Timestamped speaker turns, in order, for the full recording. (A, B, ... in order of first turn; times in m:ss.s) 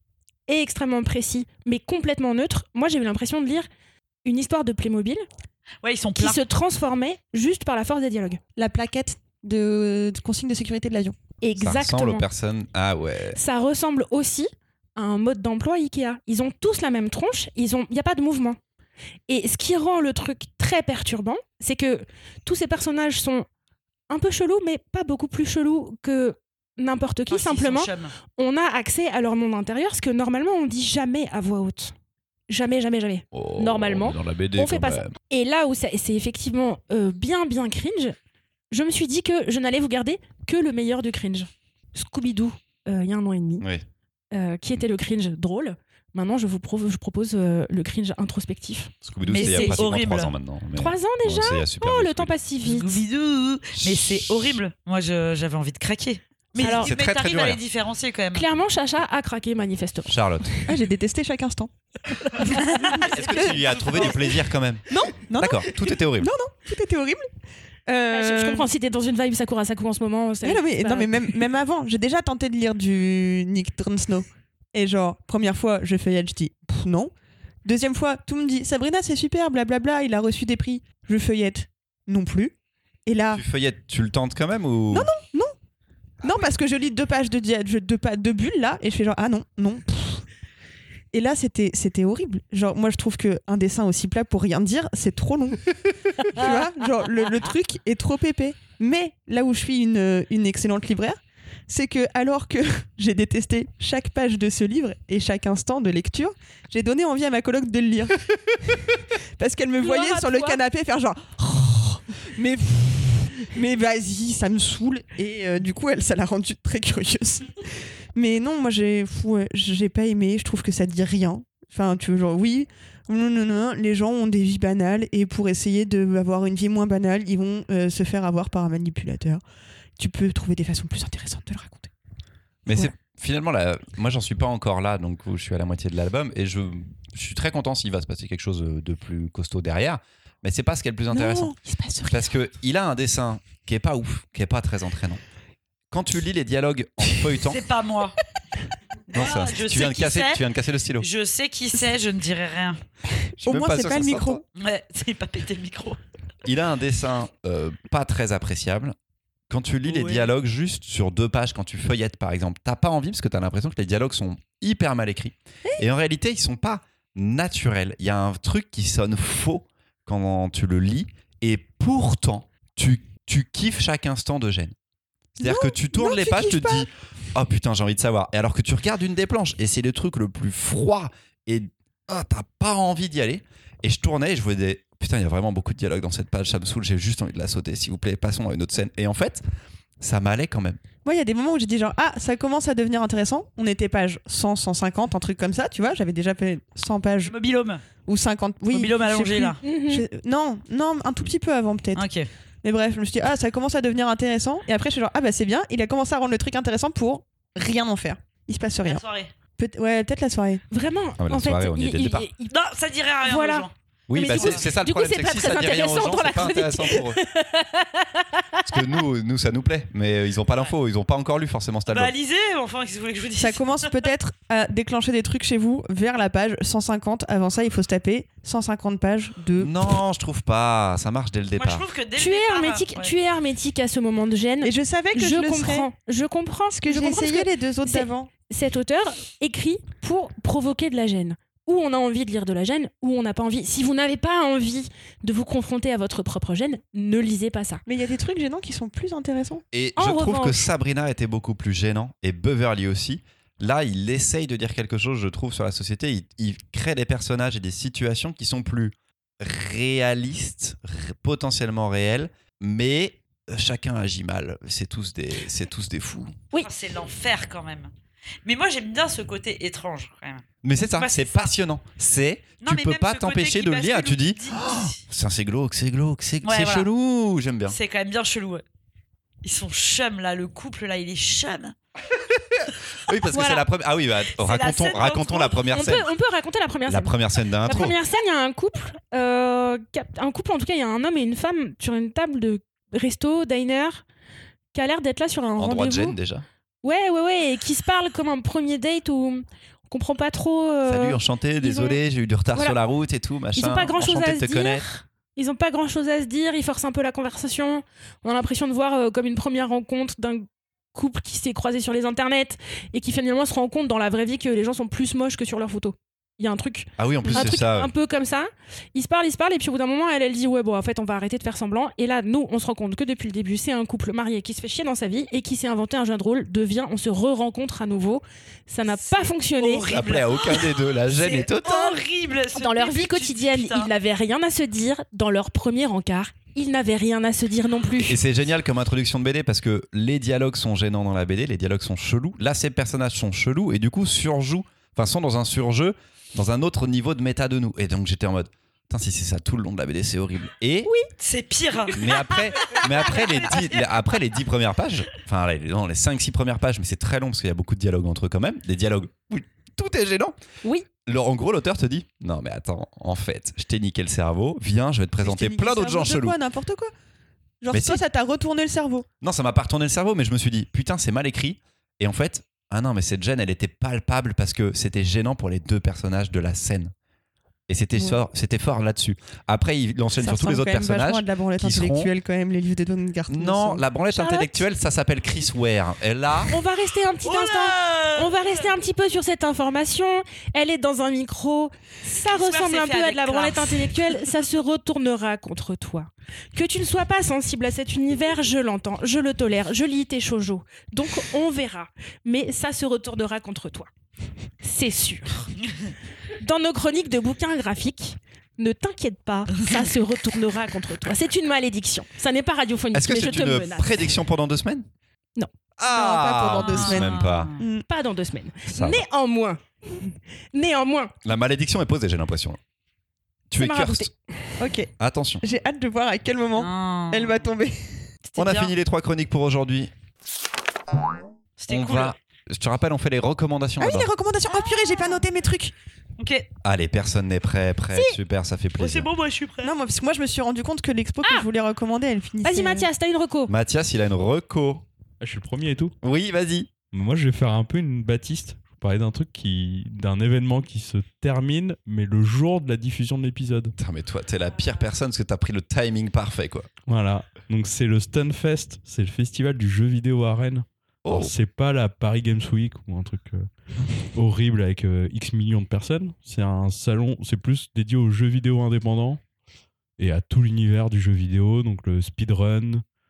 0:00.5-0:03.7 A
0:04.2-0:05.2 A
0:05.8-0:06.4 B
0:06.2-0:08.4 A
0:08.6-0:11.2 C
0:11.4-0:12.2 A
0:11.6-0:13.4 D
0:13.3-0:18.6 A
0:19.3-0:23.5 A
0:24.1-0:31.9 A
0:27.3-0:28.1 B
0:32.5-0:38.2 A
0:33.3-0:35.1 D
0:38.7-0:43.6 A
0:44.3-0:49.8 A
0:49.0-0:52.3 D
0:49.3-0:50.3 B
0:50.8-0:53.0 A
0:52.6-0:58.5 B
0:53.8-0:54.6 D
0:56.6-0:56.9 A
0:56.6-0:57.6 D
0:58.3-1:00.7 A
1:00.0-1:00.5 D
1:00.6-1:01.7 C
1:02.3-1:04.2 C
1:02.5-1:03.0 B
1:03.0-1:06.3 D
1:03.8-1:04.1 B
1:04.9-1:07.3 C
1:07.9-1:08.7 C
1:08.1-1:11.3 A
1:10.4-1:17.1 C
1:17.6-1:22.5 C
1:23.0-1:23.4 C
1:23.3-1:25.1 D
1:24.9-1:25.5 C
1:26.2-1:30.2 C
1:31.1-2:09.4 C
1:49.8-1:50.6 A
2:10.0-2:11.9 C
2:12.6-2:21.5 D
2:21.1-2:22.3 C
2:22.1-2:25.2 D
2:25.9-2:27.6 D
2:27.4-2:28.2 B
2:29.1-2:30.4 B
2:29.1-2:31.0 D
2:31.0-2:32.8 B
2:33.1-2:34.4 C
2:33.4-2:34.4 D
2:34.6-2:36.0 B
2:36.4-2:39.0 D
2:39.5-2:54.8 D
2:39.9-2:40.3 B
2:55.3-3:09.4 D
2:55.4-2:56.9 C
3:10.0-3:10.8 D
3:11.0-3:17.3 C
3:17.2-3:17.8 B
3:18.0-3:22.1 C
3:18.7-3:19.6 B
3:19.6-3:20.0 A
3:21.9-3:22.3 B
3:22.6-3:29.0 C
3:28.8-3:29.3 B
3:29.6-3:30.6 C
3:30.7-3:32.5 A
3:31.2-3:32.3 D
3:32.5-3:34.7 B
3:33.2-3:38.8 A
3:34.1-3:37.2 D
3:38.7-3:42.1 D
3:41.9-3:44.1 B
3:43.4-3:49.8 C
3:49.6-3:51.8 D
3:51.6-3:53.1 B
3:52.2-4:07.8 A
3:54.6-3:55.9 C
3:56.7-3:58.3 C
4:07.8-4:09.6 C
4:09.7-4:26.3 D
4:10.0-4:10.7 A
4:26.5-4:27.9 B
4:28.4-4:31.5 B
4:30.6-4:37.8 D
4:32.6-4:35.0 B
4:36.4-4:36.9 B
4:37.7-4:38.6 B
4:39.4-4:41.7 B
4:42.2-4:46.1 D
4:43.3-4:43.6 A
4:44.3-4:45.7 B
4:45.7-4:47.1 A
4:46.9-4:48.0 D
4:47.6-4:54.0 A
4:54.7-4:56.2 A
4:55.6-4:56.4 D
4:56.8-5:02.0 A
5:00.8-5:04.8 D
5:02.5-5:02.8 A
5:03.6-5:29.9 A
5:17.0-5:17.9 D
5:28.8-5:33.9 B
5:29.9-5:31.9 D
5:32.5-5:38.2 A
5:38.0-5:50.9 D
5:51.2-5:54.0 B
5:51.9-6:00.4 D
6:01.0-6:06.4 D
6:05.2-6:06.9 C
6:07.6-6:09.0 C
6:07.7-6:08.0 D
6:09.2-6:16.9 D
6:17.7-6:22.1 D
6:18.0-6:18.2 C
6:20.2-6:23.8 C
6:23.3-6:26.5 D
6:24.1-6:24.6 A
6:26.5-6:43.9 A
6:27.2-6:28.7 B
6:32.2-6:34.3 B
6:44.6-6:45.5 A
6:46.4-6:54.1 A
6:52.9-6:54.8 D
6:55.8-6:57.5 D
6:55.9-6:57.8 C
6:56.6-6:57.6 B
6:57.8-7:01.2 A
6:58.7-6:59.0 D
7:01.2-7:02.6 D
7:03.5-7:04.1 D
7:03.6-7:04.4 A
7:04.6-7:08.1 C
7:05.0-7:05.4 D
7:06.6-7:07.4 B
7:08.3-7:08.7 B
7:08.4-7:09.9 D
7:11.6-7:12.1 B
7:11.7-7:14.1 D
7:13.8-7:15.7 C
7:16.2-7:16.5 B
7:16.6-7:19.1 D
7:17.9-7:18.2 A
7:18.8-7:19.8 B
7:19.6-7:22.9 C
7:22.4-7:23.5 A
7:23.5-7:24.8 D
7:25.2-7:25.9 E
7:26.0-7:26.7 D
7:26.9-7:33.7 E
7:33.8-7:36.7 D
7:36.9-7:43.5 E
7:41.0-7:41.3 D
7:44.1-7:49.2 E
7:50.0-7:52.8 E